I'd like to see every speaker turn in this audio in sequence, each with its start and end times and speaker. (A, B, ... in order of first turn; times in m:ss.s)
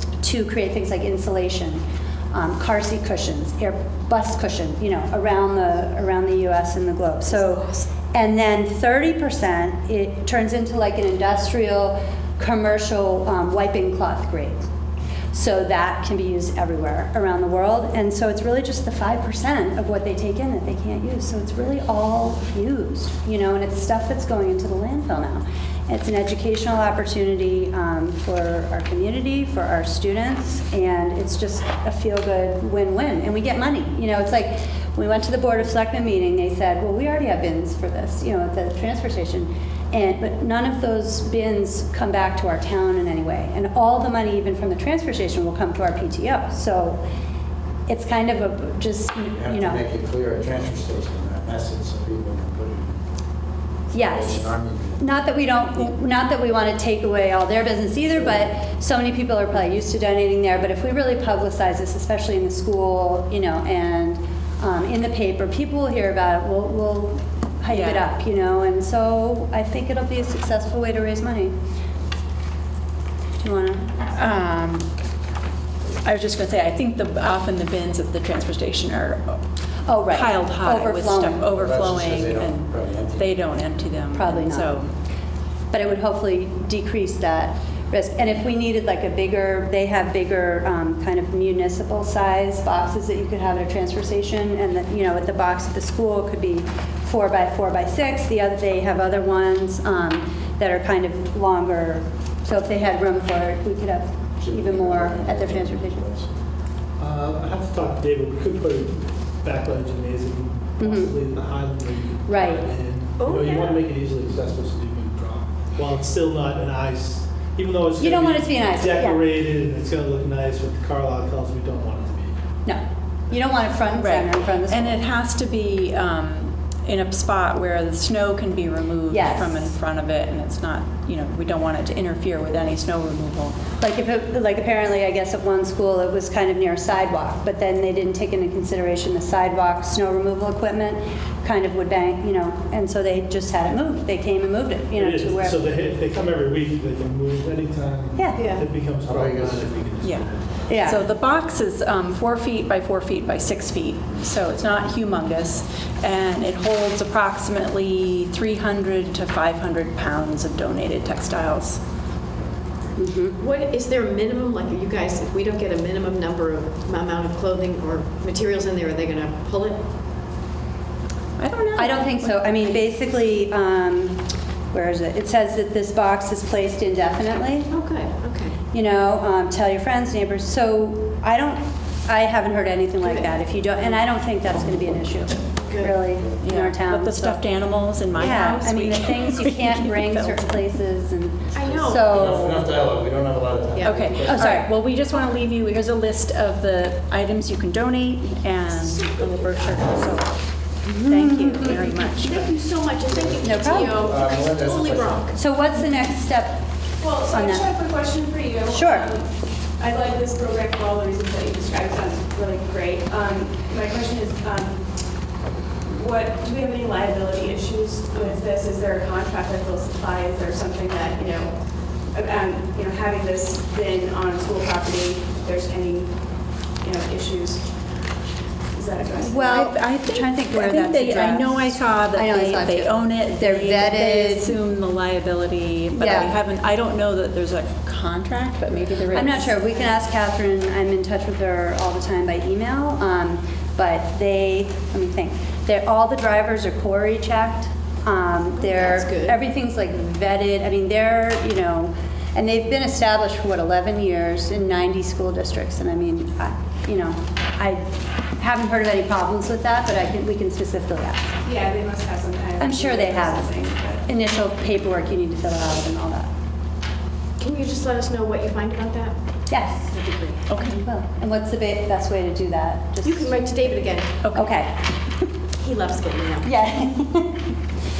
0:00.2-0:14.6 A
0:07.3-0:07.9 B
0:15.3-0:47.0 A
0:47.9-0:49.8 A
0:49.4-0:53.0 C
0:53.9-1:11.6 A
0:54.0-0:55.1 C
1:07.7-1:08.1 D
1:13.4-1:13.9 A
1:14.1-1:14.9 D
1:16.0-1:19.4 D
1:19.9-1:21.5 A
1:20.1-1:24.9 D
1:21.5-1:23.3 C
1:24.1-1:24.8 A
1:25.7-1:46.1 A
1:44.4-1:46.3 C
1:47.0-2:02.4 E
1:50.8-1:51.1 A
1:52.3-1:52.6 A
1:53.2-1:53.8 B
1:58.0-1:59.2 A
2:02.7-2:05.0 A
2:04.0-2:13.6 D
2:09.1-2:09.6 A
2:13.8-2:25.6 A
2:24.9-2:30.4 E
2:28.2-2:28.4 A
2:28.4-2:28.6 B
2:29.0-2:29.8 C
2:30.0-2:41.8 D
2:30.7-2:31.0 A
2:43.0-2:43.4 A
2:43.4-2:49.8 B
2:51.4-2:52.8 D
2:51.8-2:57.7 A
2:57.7-2:58.6 B
2:58.7-3:07.4 A
3:03.0-3:03.3 B
3:05.7-3:06.1 B
3:06.4-3:10.7 D
3:08.1-3:12.7 A
3:11.6-3:12.4 B
3:11.8-3:14.6 C
3:13.8-3:14.1 B
3:13.8-3:22.4 D
3:14.3-3:14.7 A
3:18.7-3:20.2 B
3:20.9-3:21.8 A
3:21.6-3:25.4 B
3:23.1-3:25.3 C
3:23.4-3:24.0 A
3:25.4-3:26.7 A
3:27.0-3:34.9 F
3:27.3-3:27.7 A
3:28.7-3:29.1 A
3:35.8-3:46.1 F
3:46.8-3:47.7 F
3:48.7-3:49.6 F
3:49.2-3:54.6 A
3:49.4-3:59.6 D
3:55.9-3:56.3 A
3:59.1-4:21.3 A
4:08.6-4:09.4 B
4:21.4-4:24.1 F
4:22.6-4:23.5 A
4:24.1-4:26.3 A
4:27.4-4:29.2 B
4:29.5-4:33.4 A
4:29.9-4:30.8 D
4:33.0-4:34.2 B
4:34.2-4:34.6 D
4:34.3-4:34.9 A
4:35.6-4:36.5 B
4:36.4-4:37.5 A